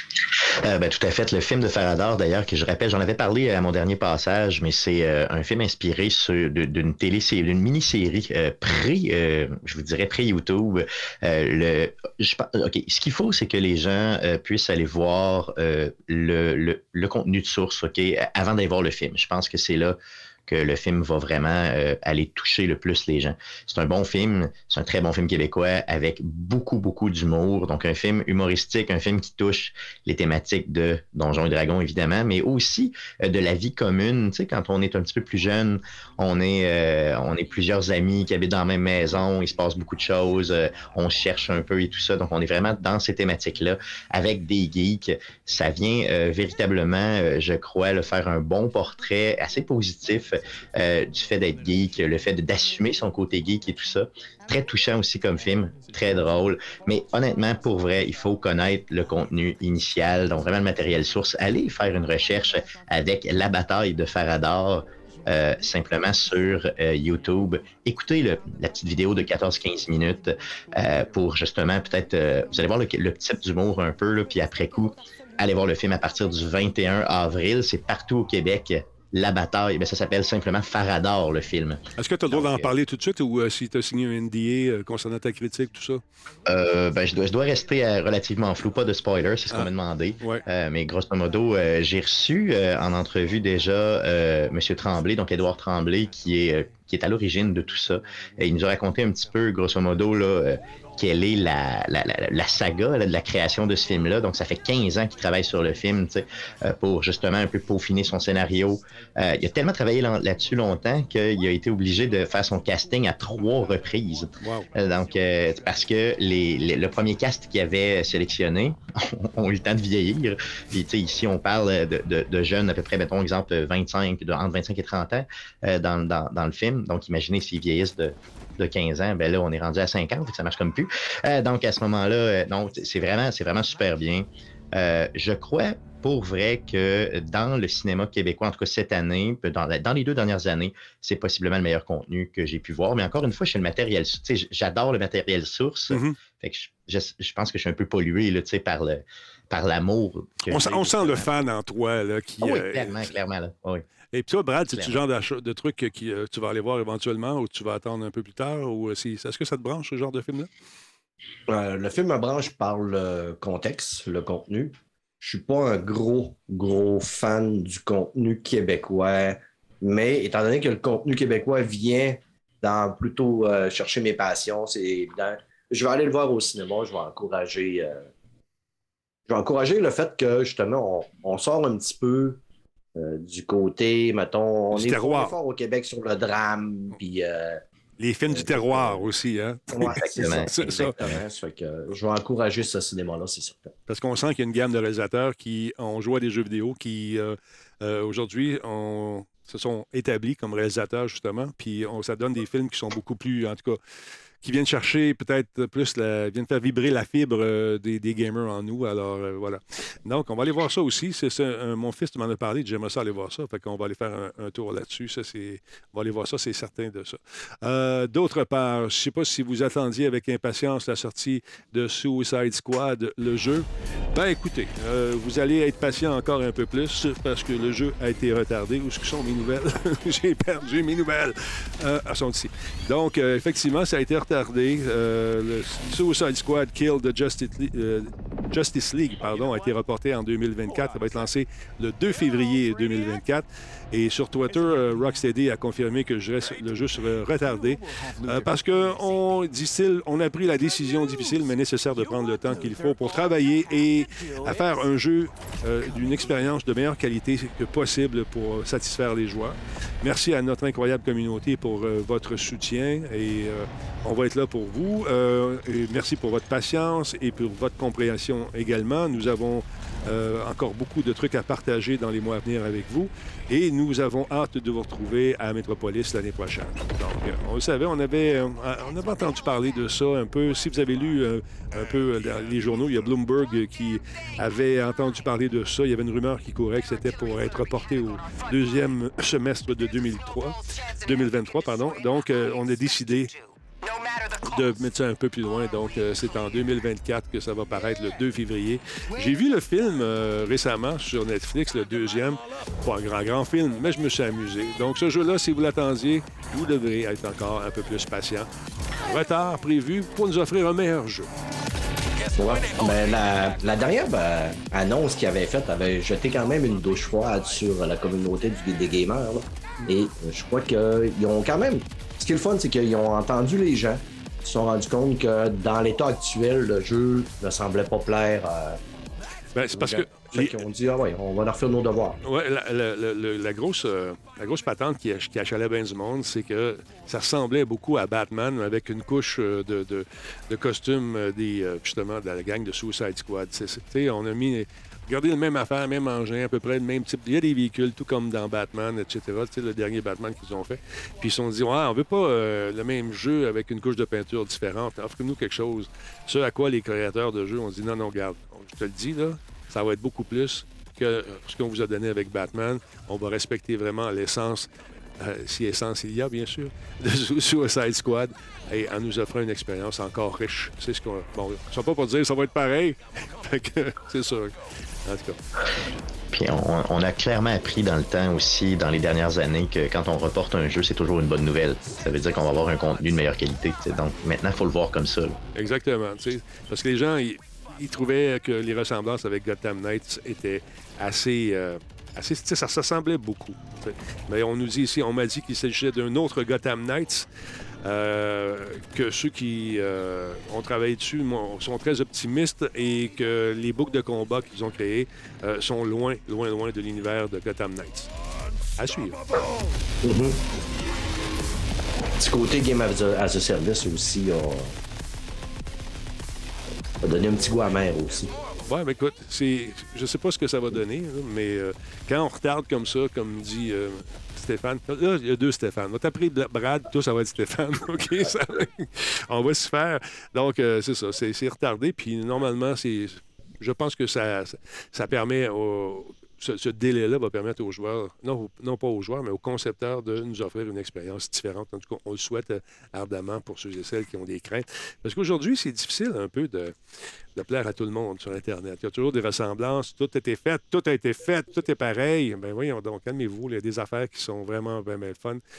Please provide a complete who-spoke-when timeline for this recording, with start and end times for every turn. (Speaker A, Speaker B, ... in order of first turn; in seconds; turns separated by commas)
Speaker A: 0.6-82.7, Speaker B: 82.0-86.0, Speaker A: 86.5-151.3, Speaker B: 89.5-90.4, Speaker B: 114.4-114.7, Speaker B: 145.9-146.2, Speaker B: 150.5-153.1, Speaker A: 152.4-153.8, Speaker B: 154.1-160.5, Speaker A: 154.7-155.0, Speaker C: 161.5-178.1, Speaker C: 179.3-182.4, Speaker C: 183.0-187.6, Speaker B: 184.7-185.4, Speaker B: 188.0-191.0, Speaker C: 188.3-189.1, Speaker C: 189.7-193.7, Speaker A: 189.8-191.2, Speaker B: 193.9-203.8, Speaker B: 204.4-293.3, Speaker B: 294.4-308.5, Speaker B: 309.0-311.3, Speaker C: 312.4-328.8, Speaker B: 329.5-330.6, Speaker C: 329.7-332.2, Speaker B: 332.2-375.9, Speaker A: 376.3-385.4, Speaker B: 385.5-397.3, Speaker B: 397.8-408.1, Speaker B: 408.8-409.2, Speaker C: 410.0-410.4, Speaker C: 412.2-414.7, Speaker C: 417.0-418.3, Speaker B: 418.6-446.8, Speaker B: 447.4-455.4